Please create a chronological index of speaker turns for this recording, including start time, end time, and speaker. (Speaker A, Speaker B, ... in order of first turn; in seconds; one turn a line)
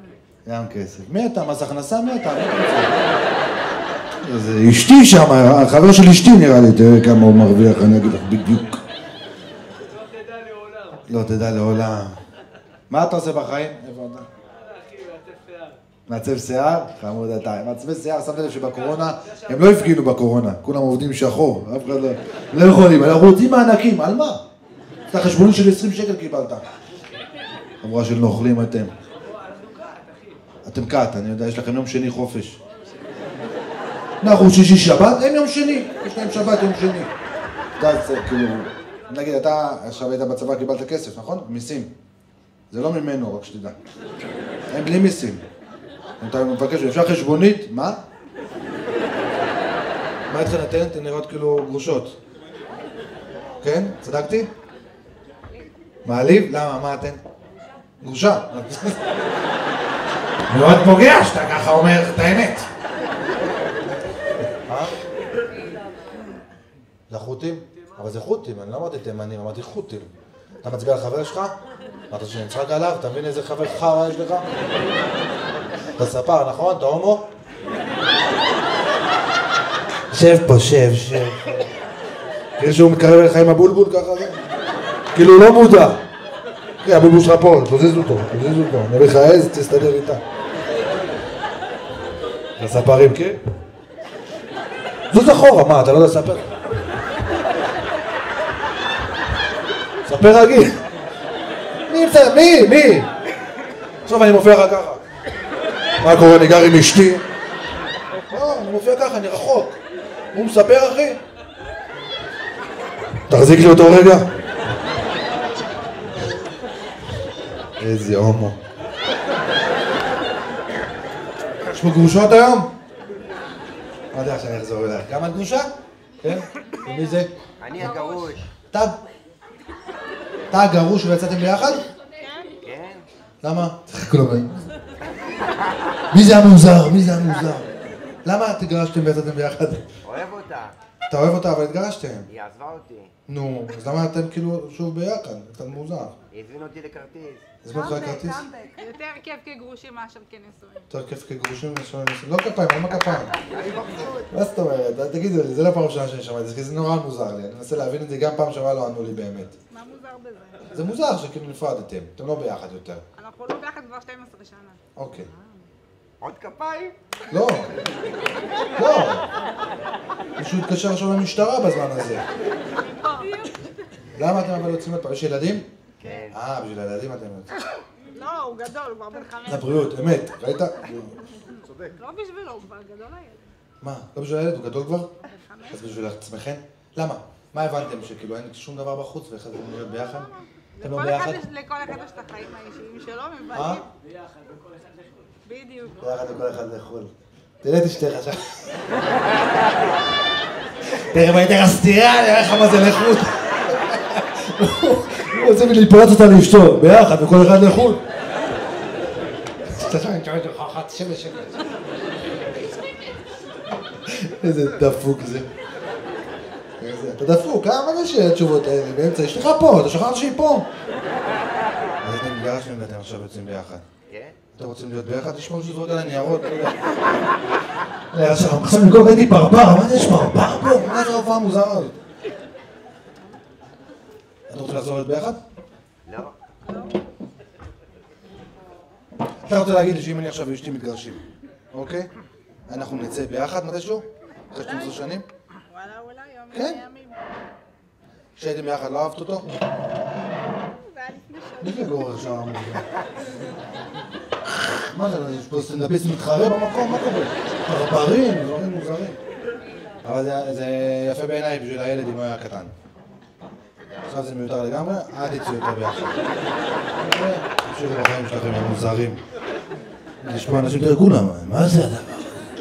Speaker A: 0.4-3.0
Speaker A: 4.2-8.8
Speaker A: 11.1-12.2
Speaker A: 12.9-14.3
Speaker A: 16.1-24.4
Speaker A: 25.1-26.7
Speaker A: 27.8-28.9
Speaker A: 30.6-32.6
Speaker A: 34.2-37.1
Speaker A: 37.8-41.9
Speaker A: 42.7-43.8
Speaker A: 44.7-45.4
Speaker A: 46.2-48.0
Speaker A: 50.3-52.2
Speaker A: 53.6-54.5
Speaker A: 56.0-57.2
Speaker A: 58.0-59.0
Speaker A: 60.5-62.7
Speaker A: 64.7-64.9
Speaker A: 67.1-71.6
Speaker A: 72.1-74.5
Speaker A: 76.0-77.3
Speaker A: 80.1-81.6
Speaker A: 82.6-84.4
Speaker A: 85.1-86.0
Speaker A: 86.8-90.2
Speaker A: 92.6-93.4
Speaker A: 95.1-96.5
Speaker A: 100.0-100.8
Speaker A: 101.9-103.1
Speaker A: 104.0-105.0
Speaker A: 106.0-107.2
Speaker A: 108.3-109.8
Speaker A: 110.3-111.2
Speaker A: 113.3-114.3
Speaker A: 117.8-118.6
Speaker A: 121.7-122.7
Speaker A: 124.1-125.7
Speaker A: 126.2-127.3
Speaker B: 127.6-128.5
Speaker C: 127.9-128.3
Speaker A: 130.5-131.8
Speaker C: 132.2-132.6
Speaker B: 132.6-133.1
Speaker A: 133.4-134.5
Speaker A: 136.1-137.7
Speaker A: 138.2-139.9
Speaker B: 140.0-140.7
Speaker A: 141.1-142.3
Speaker B: 142.3-143.1
Speaker A: 143.3-146.1
Speaker B: 146.3-147.5
Speaker A: 147.6-148.5
Speaker C: 148.0-150.9
Speaker A: 150.9-153.3
Speaker B: 153.5-154.2
Speaker A: 154.3-159.6
Speaker C: 159.7-160.7
Speaker A: 160.7-163.0
Speaker C: 163.1-164.8
Speaker A: 164.9-165.3
Speaker B: 166.2-166.9
Speaker A: 167.3-167.7
Speaker A: 168.8-169.3
Speaker A: 170.4-172.2
Speaker C: 172.8-173.7
Speaker A: 174.1-175.7
Speaker B: 176.0-176.3
Speaker A: 176.3-177.5
Speaker C: 178.1-179.8
Speaker A: 179.4-181.2
Speaker C: 181.7-183.5
Speaker A: 183.8-185.1
Speaker C: 185.2-185.9
Speaker A: 185.7-190.3
Speaker C: 190.8-193.8
Speaker A: 190.8-191.4
Speaker A: 193.5-193.8
Speaker C: 195.4-196.0
Speaker A: 196.0-198.6
Speaker A: 200.9-208.0
Speaker A: 209.6-211.5
Speaker A: 214.0-215.5
Speaker A: 216.8-220.7
Speaker A: 222.0-223.8
Speaker B: 224.1-224.3
Speaker A: 224.5-226.8
Speaker A: 228.1-232.0
Speaker A: 234.5-235.4
Speaker B: 236.1-236.3
Speaker A: 239.4-242.1
Speaker A: 242.7-245.2
Speaker C: 244.6-245.0
Speaker C: 245.7-247.2
Speaker A: 246.5-246.8
Speaker A: 248.3-249.5
Speaker C: 250.8-252.1
Speaker A: 251.6-252.8
Speaker A: 254.7-259.2
Speaker A: 260.0-262.7
Speaker A: 264.1-266.2
Speaker A: 267.0-269.2
Speaker A: 270.2-272.4